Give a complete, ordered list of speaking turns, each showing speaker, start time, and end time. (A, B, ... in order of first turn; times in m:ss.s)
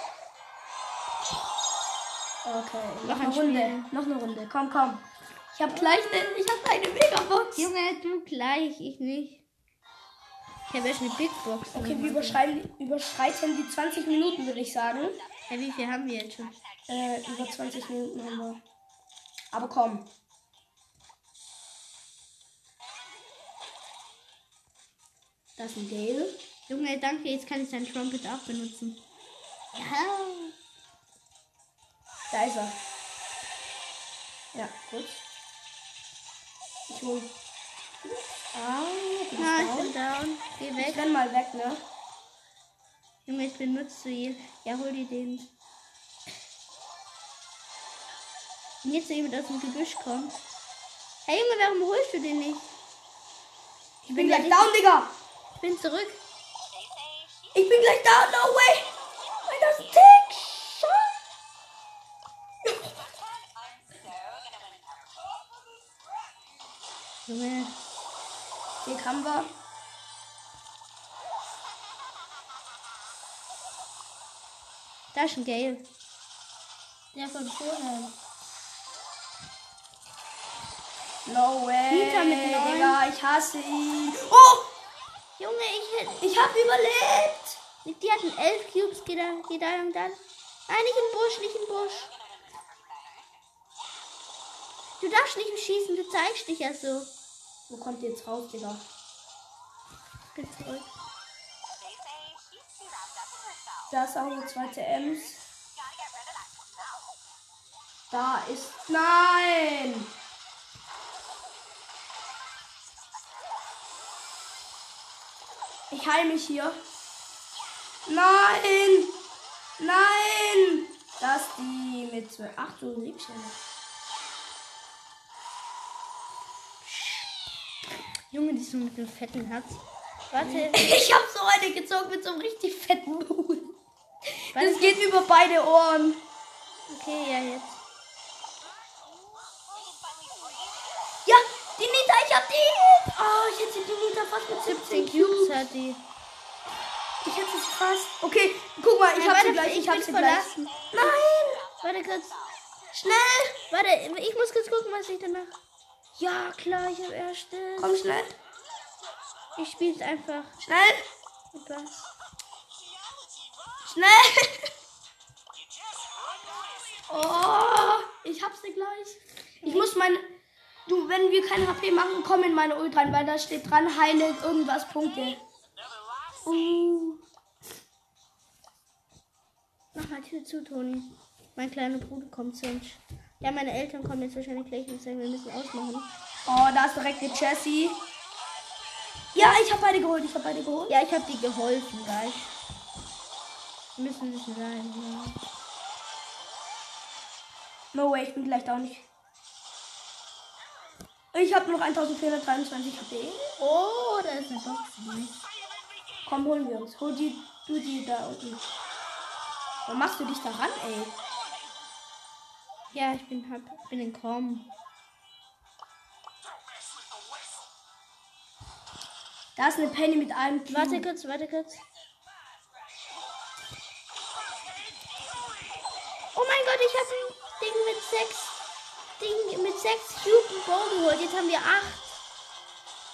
0:02.4-0:07.7 A
0:03.0-0:03.9 B
0:07.6-0:09.4 B
0:10.7-0:12.4 B
0:11.7-0:15.2 A
0:15.5-0:16.6 B
0:16.9-0:18.6 A
0:19.5-0:20.1 A
0:25.6-0:26.4 A
0:26.7-0:29.0 B
0:29.7-0:30.5 B
0:32.3-0:32.8 A
0:34.5-0:35.2 A
0:36.9-0:37.3 A
0:38.0-0:40.0 A
0:39.4-0:41.0 B
0:40.8-0:41.8 A
0:43.3-0:45.5 B
0:48.8-0:50.4 B
0:51.3-0:52.7 B
0:54.1-0:55.1 A
0:54.1-0:54.7 B
0:55.6-0:56.2 B
0:57.5-0:58.9 A
0:59.5-1:01.1 A
1:02.6-1:02.9 A
1:07.3-1:07.7 B
1:08.8-1:09.5 A
1:15.1-1:15.9 B
1:17.1-1:18.2 B
1:21.3-1:24.7 A
1:21.9-1:23.0 B
1:25.4-1:26.2 B
1:26.2-1:27.6 A
1:27.8-1:32.1 B
1:35.0-1:37.1 B
1:37.7-1:38.8 A
1:40.4-1:40.9 B
1:43.9-1:45.4 A
1:48.1-1:50.1 A
1:55.9-1:56.8 A
1:58.1-1:59.2 A
1:59.8-2:03.6 A
2:06.8-2:07.3 B
2:08.3-2:11.0 B
2:10.4-2:13.7 A
2:14.4-2:16.2 A
2:14.5-2:15.1 B
2:16.9-2:17.8 B
2:21.3-2:25.7 A
2:24.6-2:26.0 B
2:27.2-2:31.7 A
2:29.1-2:31.1 B
2:31.8-2:32.4 B
2:32.9-2:33.6 A
2:33.7-2:35.6 B
2:36.2-2:38.0 B
2:37.8-2:38.3 A
2:39.6-2:40.6 B
2:40.6-2:41.0 A
2:41.5-2:42.1 B
2:43.8-2:44.7 A
2:47.1-2:50.3 A
2:49.6-2:49.9 B
2:50.9-2:55.4 A
2:56.4-2:57.2 B
2:59.9-3:06.1 B
3:06.5-3:08.0 A
3:09.4-3:11.0 A
3:10.9-3:12.5 B
3:14.0-3:15.4 B
3:17.9-3:19.1 A
3:21.3-3:23.5 A
3:23.6-3:25.4 B
3:26.3-3:28.6 A
3:29.9-3:31.2 A
3:32.9-3:34.7 B
3:39.6-3:41.1 A
3:40.7-3:41.8 B
3:46.4-3:48.6 B
3:49.2-3:52.1 B